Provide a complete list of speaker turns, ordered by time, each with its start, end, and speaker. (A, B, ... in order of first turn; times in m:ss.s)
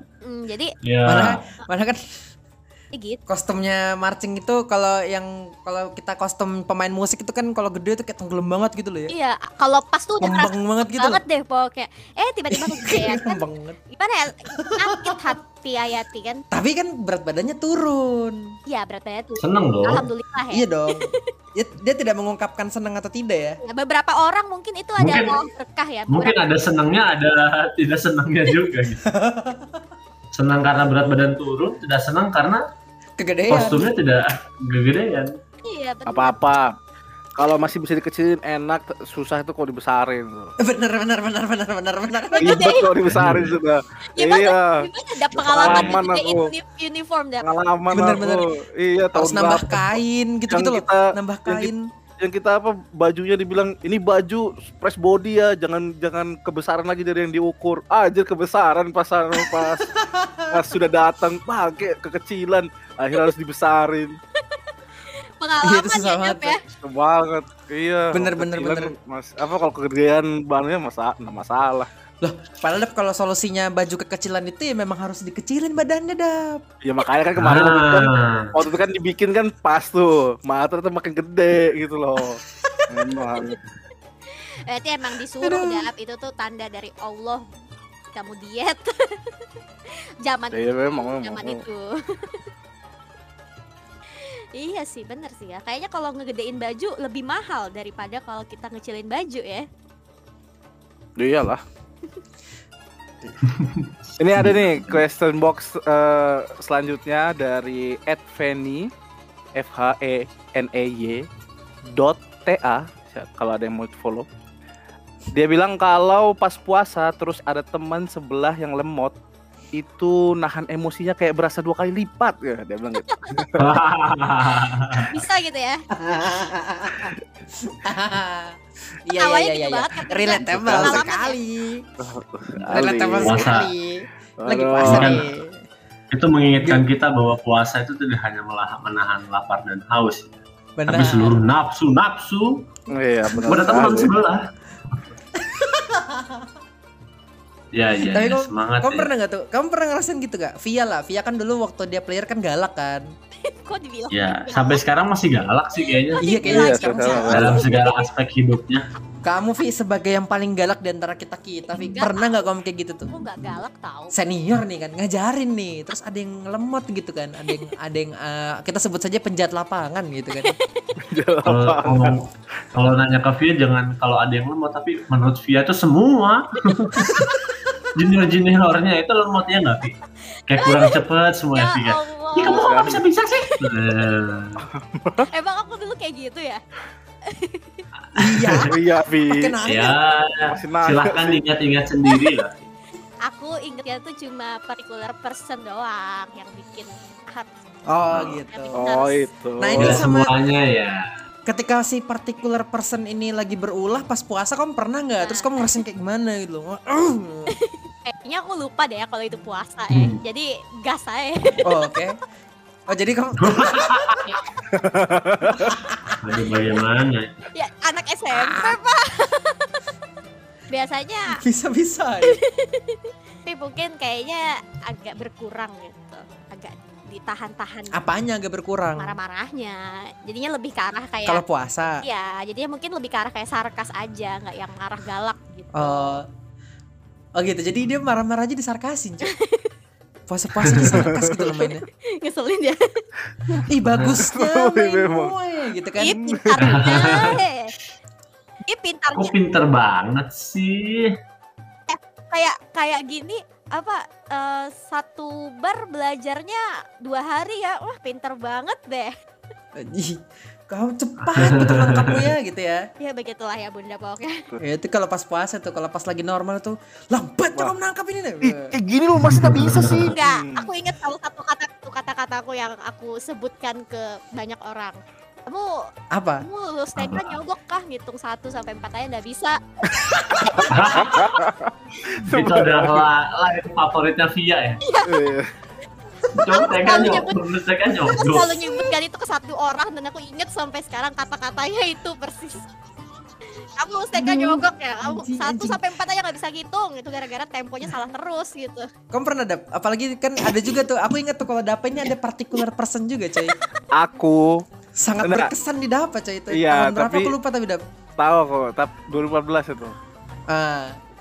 0:00.2-0:00.7 A
0:00.8-0:01.4 B
0:01.0-0:02.0 C
0:02.9-0:03.2 A
0:03.3-0:09.1 C
0:09.1-0:16.4 A
0:10.2-0:11.2 C
0:12.5-0:13.8 C
0:14.5-0:15.3 C
0:16.5-0:18.4 C
0:18.7-0:21.3 A
0:19.4-0:20.1 B
0:20.5-0:23.6 C
0:23.6-0:26.4 A
0:25.0-0:25.4 B
0:26.1-0:29.0 B
0:29.0-0:29.8 C
0:30.3-0:32.6 B
0:33.2-0:33.9 C
0:33.5-0:35.3 B
0:35.6-0:36.4 A
0:36.1-0:36.7 D
0:37.4-0:40.5 D
0:40.6-0:42.8 C
0:42.3-0:42.9 A
0:42.4-0:46.5 D
0:43.1-0:43.5 B
0:44.1-0:47.5 A
0:45.5-0:46.0 B
0:47.4-0:59.9 D
0:47.9-0:48.4 C
0:49.1-0:51.9 C
0:59.9-1:00.5 C
1:00.5-1:04.2 D
1:04.4-1:06.6 A
1:05.6-1:06.6 C
1:06.7-1:11.9 D
1:08.1-1:08.9 C
1:12.2-1:16.6 C
1:16.8-1:23.6 D
1:17.4-1:18.5 B
1:24.3-1:27.4 A
1:25.4-1:25.9 C
1:28.1-1:32.5 A
1:30.5-1:31.6 D
1:34.1-1:39.7 A
1:41.2-1:41.6 D
1:43.4-1:45.0 B
1:44.2-1:48.9 D
1:49.6-1:51.3 D
1:51.9-1:54.3 D
1:55.3-1:59.2 D
1:59.7-2:03.8 D
2:03.1-2:03.5 A
2:03.6-2:05.1 B
2:05.1-2:05.8 A
2:06.0-2:11.8 C
2:09.2-2:11.4 A
2:10.6-2:11.0 D
2:12.0-2:13.6 D
2:12.7-2:15.6 C
2:13.2-2:13.7 B
2:14.4-2:15.2 D
2:14.8-2:15.2 B
2:16.1-2:20.3 B
2:20.8-2:21.4 C
2:20.9-2:22.6 B
2:22.9-2:24.1 D
2:23.3-2:24.5 B
2:23.3-2:23.9 C
2:25.4-2:26.4 C
2:27.7-2:29.1 B
2:28.0-2:33.1 C
2:33.4-2:34.8 A
2:34.1-2:36.2 B
2:35.8-2:38.1 A
2:36.2-2:37.6 C
2:36.4-2:37.6 D
2:37.3-2:38.8 B
2:39.2-2:43.1 C
2:41.7-2:42.4 A
2:43.1-2:44.1 A
2:44.1-2:50.6 C
2:50.3-2:50.9 A
2:51.0-2:52.2 D
2:51.4-2:57.3 B
2:57.9-3:00.0 B
3:00.5-3:04.6 B
3:00.6-3:01.0 A
3:01.6-3:03.7 A
3:02.4-3:03.0 D
3:04.7-3:05.3 D
3:05.3-3:06.6 A
3:07.2-3:07.8 A
3:08.2-3:10.0 C
3:08.3-3:08.7 B
3:08.6-3:09.6 D
3:09.6-3:12.6 B
3:10.5-3:11.4 D
3:12.0-3:12.3 A
3:13.2-3:17.5 A
3:17.9-3:18.9 C
3:18.1-3:18.4 B
3:18.4-3:19.2 A
3:18.7-3:20.1 D
3:19.6-3:20.3 C
3:19.7-3:21.1 B
3:21.5-3:27.6 C
3:25.2-3:25.5 A
3:27.6-3:31.9 A
3:29.9-3:30.2 B
3:31.6-3:32.2 C
3:32.9-3:34.2 C
3:33.4-3:34.3 B
3:34.7-3:35.8 D
3:35.6-3:36.2 C
3:36.2-3:37.3 B
3:37.5-3:39.9 A
3:38.3-3:38.8 C
3:40.7-3:41.4 A
3:41.4-3:42.4 C
3:42.2-3:48.0 A
3:47.9-3:49.2 C
3:49.0-3:51.4 A
3:51.2-3:52.0 C
3:52.0-3:56.2 A
3:55.7-3:56.3 C
3:57.4-3:59.3 C
3:59.3-3:59.7 A
4:00.3-4:01.8 C
4:00.9-4:01.2 D
4:01.5-4:03.0 A
4:03.4-4:05.3 D
4:03.6-4:06.2 C
4:06.0-4:07.7 A
4:06.2-4:06.8 D
4:06.6-4:07.4 B
4:08.7-4:09.3 A
4:09.1-4:11.2 B
4:11.9-4:19.1 A
4:19.8-4:22.8 C
4:21.2-4:22.2 B
4:23.0-4:24.5 A
4:24.6-4:28.8 C
4:28.4-4:30.7 D
4:29.3-4:30.1 B
4:30.0-4:35.9 A
4:36.1-4:36.4 C
4:36.4-4:41.2 A
4:37.0-4:37.4 B
4:40.1-4:40.6 C
4:40.3-4:43.1 D
4:40.7-4:41.4 B
4:42.2-4:44.8 B
4:44.8-4:45.3 A
4:45.1-4:45.5 D
4:46.3-4:48.8 B
4:46.5-4:47.4 A
4:48.1-4:52.7 A
4:53.8-4:58.9 A
4:54.2-4:55.8 C
4:59.1-5:03.6 C
5:03.5-5:03.8 A
5:03.9-5:04.6 D
5:05.0-5:07.8 C
5:05.2-5:05.5 D
5:06.5-5:07.3 D
5:08.2-5:09.9 D
5:10.5-5:11.0 C